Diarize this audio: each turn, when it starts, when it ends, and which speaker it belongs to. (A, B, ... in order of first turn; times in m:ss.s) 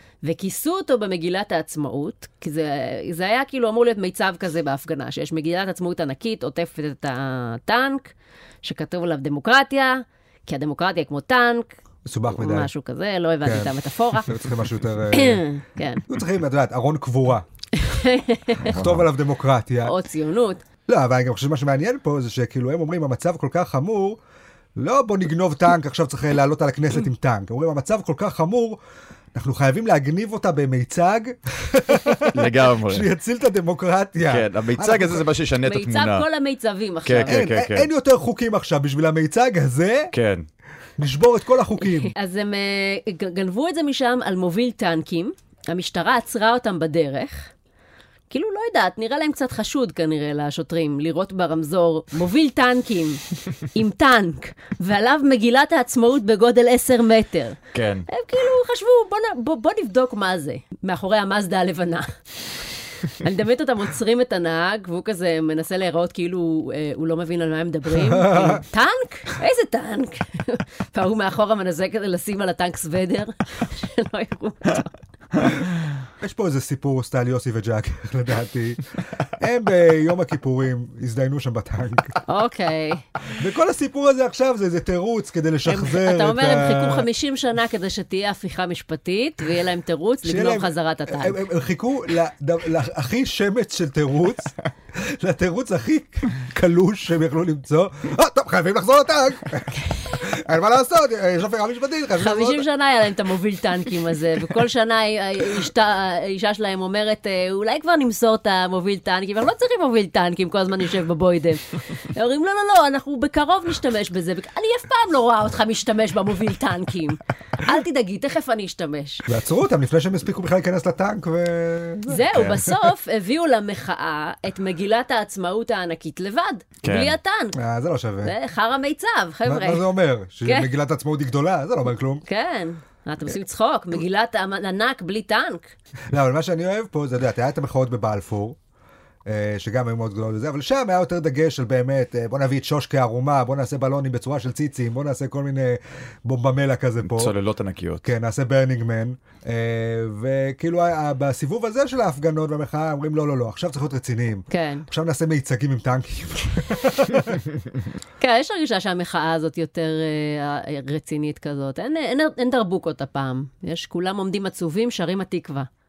0:00.2-0:11.8 A
0:12.0-0:12.7 B
0:12.3-0:14.3 A
0:13.4-0:13.7 B
0:14.2-0:15.4 B
0:15.1-0:16.0 A
0:16.1-0:17.4 B
0:17.7-0:18.8 A
0:18.6-0:19.1 C
0:18.6-0:20.0 B
0:19.8-0:20.6 A
0:20.9-0:24.2 B
0:24.8-0:28.8 B
0:29.4-0:35.3 B
0:32.2-0:33.1 C
0:34.3-0:36.3 C
0:35.6-0:37.4 A
0:37.1-0:37.9 C
0:37.3-0:40.1 B
0:40.1-0:40.4 C
0:41.0-0:42.1 B
0:41.9-0:47.5 A
0:48.3-1:02.1 A
0:57.7-0:58.1 C
1:03.1-1:14.9 A
1:07.9-1:08.6 B
1:16.2-1:18.8 B
1:19.4-1:22.2 B
1:22.3-1:23.0 A
1:23.3-1:27.1 B
1:25.7-1:31.4 A
1:30.2-1:42.6 B
1:42.2-1:59.2 A
1:59.3-2:02.7 B
2:02.1-2:07.6 A
2:06.8-2:07.2 C
2:07.6-2:08.3 B
2:08.2-2:09.9 A
2:09.5-2:12.2 B
2:10.4-2:10.7 A
2:12.3-2:15.7 A
2:16.1-2:18.6 B
2:19.3-2:27.3 B
2:27.0-2:28.1 C
2:28.0-2:37.4 B
2:34.5-2:34.9 A
2:38.2-2:45.7 A